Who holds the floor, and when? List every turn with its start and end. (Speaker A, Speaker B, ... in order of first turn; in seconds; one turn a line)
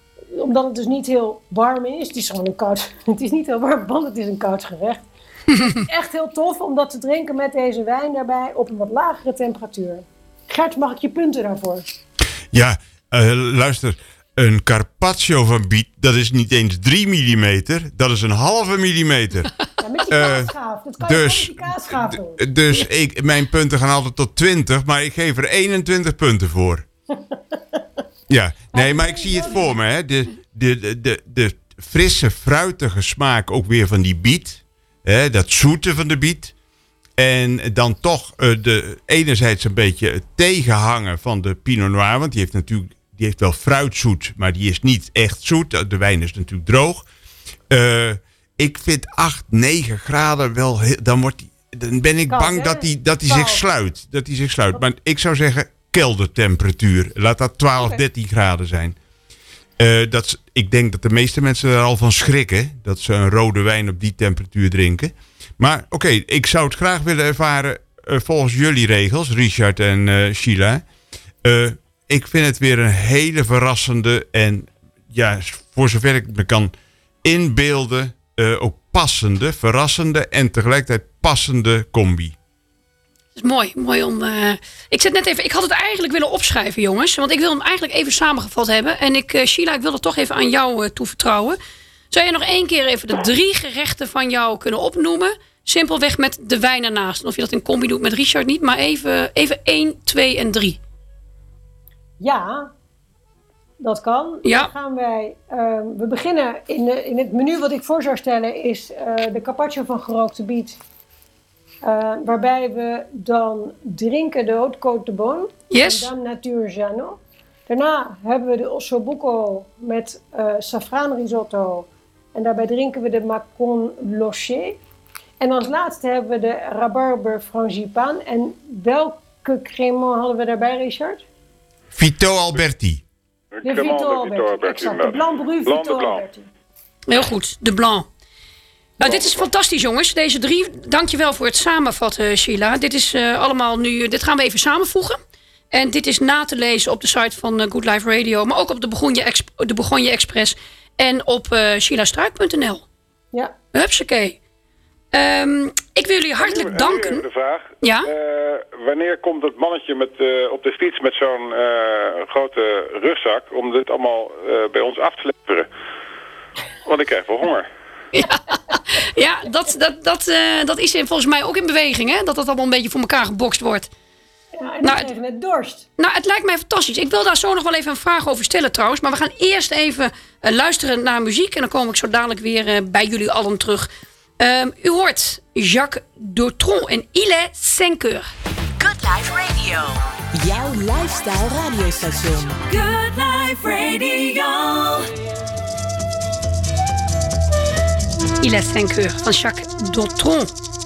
Speaker A: 0.3-11.8
Speaker B: 12.5-19.5
Speaker A: 19.8-22.4
Speaker B: 20.1-26.9
Speaker A: 27.3-27.8
Speaker B: 28.3-36.5
Speaker A: 28.7-29.8
Speaker B: 37.2-47.1
Speaker B: 47.7-59.0
Speaker A: 52.3-53.6
Speaker B: 59.8-70.8
Speaker B: 71.4-76.7
Speaker B: 77.2-82.3
Speaker C: 83.3-91.6
Speaker C: 92.1-100.8
Speaker A: 102.2-102.7
Speaker A: 103.8-110.8
Speaker C: 104.4-104.7
Speaker A: 111.8-124.8
Speaker C: 115.7-116.1
Speaker A: 125.4-131.2
Speaker B: 131.9-133.0
Speaker D: 133.5-136.2
Speaker A: 133.6-136.5
Speaker C: 137.1-138.1
Speaker C: 139.0-145.2
Speaker A: 139.0-139.3
Speaker C: 145.7-152.8
Speaker C: 153.7-154.4
Speaker C: 155.1-157.2
Speaker D: 156.4-165.7
Speaker C: 157.8-158.1
Speaker D: 166.8-167.7
Speaker C: 168.1-173.9
Speaker A: 174.6-175.8
Speaker C: 174.8-175.1
Speaker C: 176.0-183.9
Speaker C: 184.4-188.2
Speaker E: 188.8-192.6
Speaker F: 192.6-195.1
Speaker C: 198.4-200.5